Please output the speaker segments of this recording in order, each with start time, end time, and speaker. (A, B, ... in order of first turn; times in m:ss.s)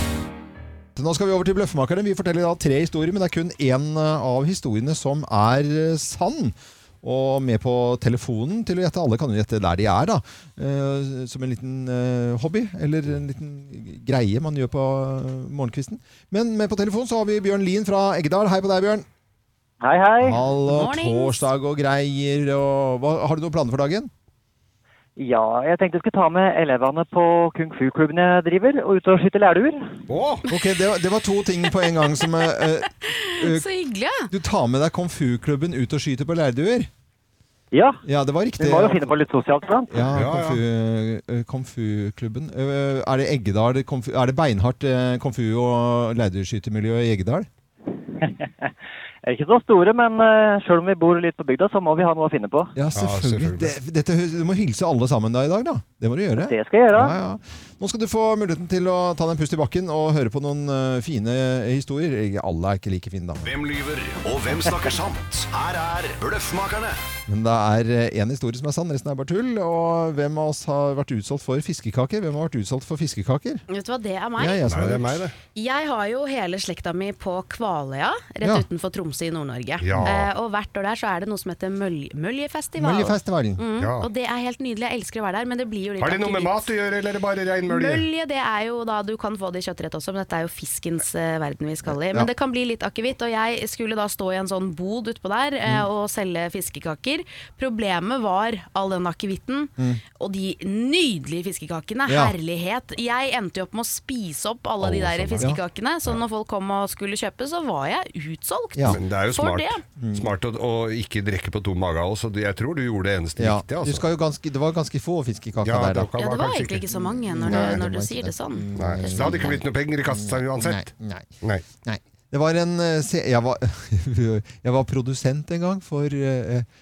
0:00.9-0:19.0 A
0:19.8-0:20.4 B
0:20.2-0:24.1 A
0:20.7-0:21.5 C
0:25.2-0:29.9 B
0:30.1-0:30.4 D
0:30.5-0:33.6 A
0:33.0-0:34.3 C
0:34.3-0:36.9 A
0:37.7-0:38.0 B
0:38.0-0:39.1 A
0:38.6-0:40.0 B
0:39.9-0:47.5 A
0:40.1-0:40.6 D
0:48.2-0:48.7 B
0:49.2-0:52.7 B
0:52.8-1:03.5 A
0:52.9-0:53.7 D
0:56.4-0:57.2 B
1:03.4-1:07.0 E
1:07.3-1:13.6 A
1:13.7-1:14.6 C
1:14.4-1:15.2 A
1:14.7-1:15.3 D
1:15.5-1:26.6 C
1:19.8-1:20.3 D
1:22.8-1:23.6 A
1:23.8-1:24.1 D
1:26.0-1:28.0 D
1:27.7-1:49.8 C
1:31.9-1:32.3 A
1:42.1-1:42.3 A
1:44.8-1:45.5 D
1:48.9-1:54.1 D
1:50.0-1:50.3 A
1:53.4-1:56.1 A
1:55.6-1:56.9 D
1:56.2-1:59.3 C
1:56.9-2:01.3 A
1:57.4-1:57.8 D
1:58.7-2:00.8 D
2:01.8-2:06.6 A